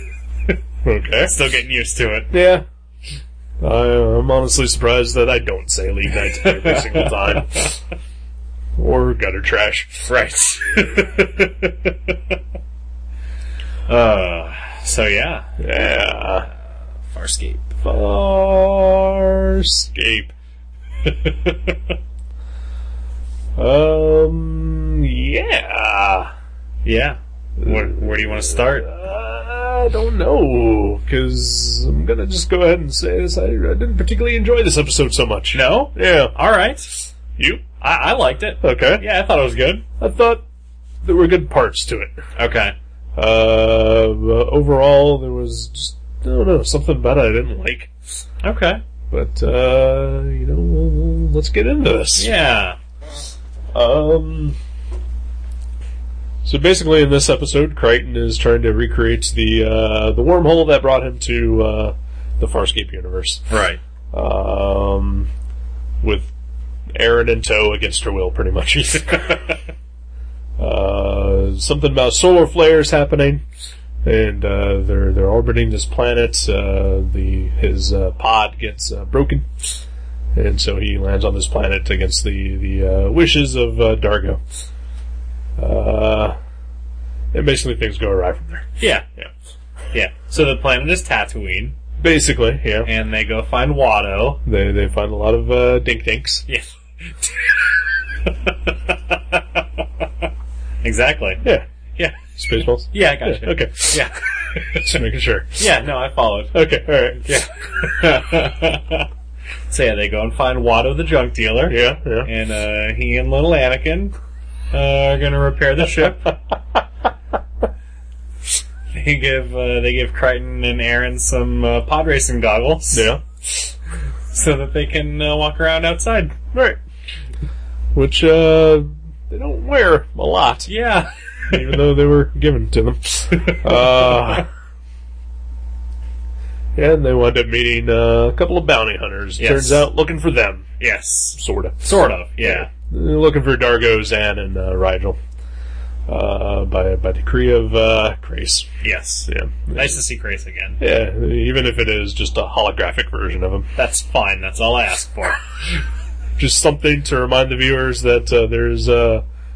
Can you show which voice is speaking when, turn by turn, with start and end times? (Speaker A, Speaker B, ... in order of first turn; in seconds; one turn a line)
Speaker A: 0.8-1.4
Speaker B: 1.2-2.4
Speaker A: 2.3-2.6
Speaker A: 3.6-7.8
Speaker B: 6.3-7.7
Speaker A: 8.8-10.1
Speaker B: 10.1-12.4
Speaker B: 13.9-15.5
Speaker A: 15.6-16.5
Speaker B: 17.1-17.8
Speaker A: 17.8-20.3
Speaker B: 21.0-21.8
Speaker A: 23.6-26.3
Speaker B: 26.9-28.9
Speaker A: 27.6-36.3
Speaker B: 35.5-37.0
Speaker A: 37.4-37.6
Speaker B: 37.8-39.8
Speaker A: 38.6-39.0
Speaker A: 40.0-40.4
Speaker A: 41.0-42.2
Speaker B: 42.4-42.8
Speaker A: 43.2-47.9
Speaker B: 48.4-48.8
Speaker A: 49.1-52.3
Speaker B: 52.2-52.8
Speaker A: 53.7-54.6
Speaker A: 56.5-63.5
Speaker B: 63.5-63.8
Speaker A: 64.1-65.3
Speaker A: 66.0-66.3
Speaker A: 66.9-69.4
Speaker B: 69.0-69.5
Speaker A: 70.6-73.4
Speaker A: 74.0-79.8
Speaker A: 80.3-84.4
Speaker A: 85.6-86.4
Speaker A: 87.3-89.3
Speaker B: 88.8-89.0
Speaker B: 89.9-91.8
Speaker A: 92.0-92.9
Speaker B: 92.8-94.4
Speaker A: 94.5-96.4
Speaker B: 96.5-97.7
Speaker B: 98.2-99.7
Speaker B: 100.8-101.4
Speaker A: 102.3-104.0
Speaker B: 102.9-105.0
Speaker A: 104.6-105.6
Speaker B: 105.6-106.6
Speaker A: 106.5-107.2
Speaker B: 107.1-109.1
Speaker B: 109.7-114.1
Speaker A: 111.7-112.3
Speaker B: 114.7-116.4
Speaker B: 118.9-123.7
Speaker A: 122.9-123.2
Speaker B: 124.3-126.4
Speaker A: 126.5-126.8
Speaker A: 127.9-130.7
Speaker B: 130.7-131.6
Speaker A: 131.5-134.5
Speaker B: 133.3-134.3
Speaker A: 136.8-140.7
Speaker B: 139.4-139.9
Speaker B: 140.8-142.7
Speaker A: 141.3-145.2
Speaker A: 146.1-148.7
Speaker B: 148.8-150.8
Speaker A: 149.3-150.0
Speaker A: 150.8-153.7
Speaker B: 153.8-155.4
Speaker A: 156.4-159.2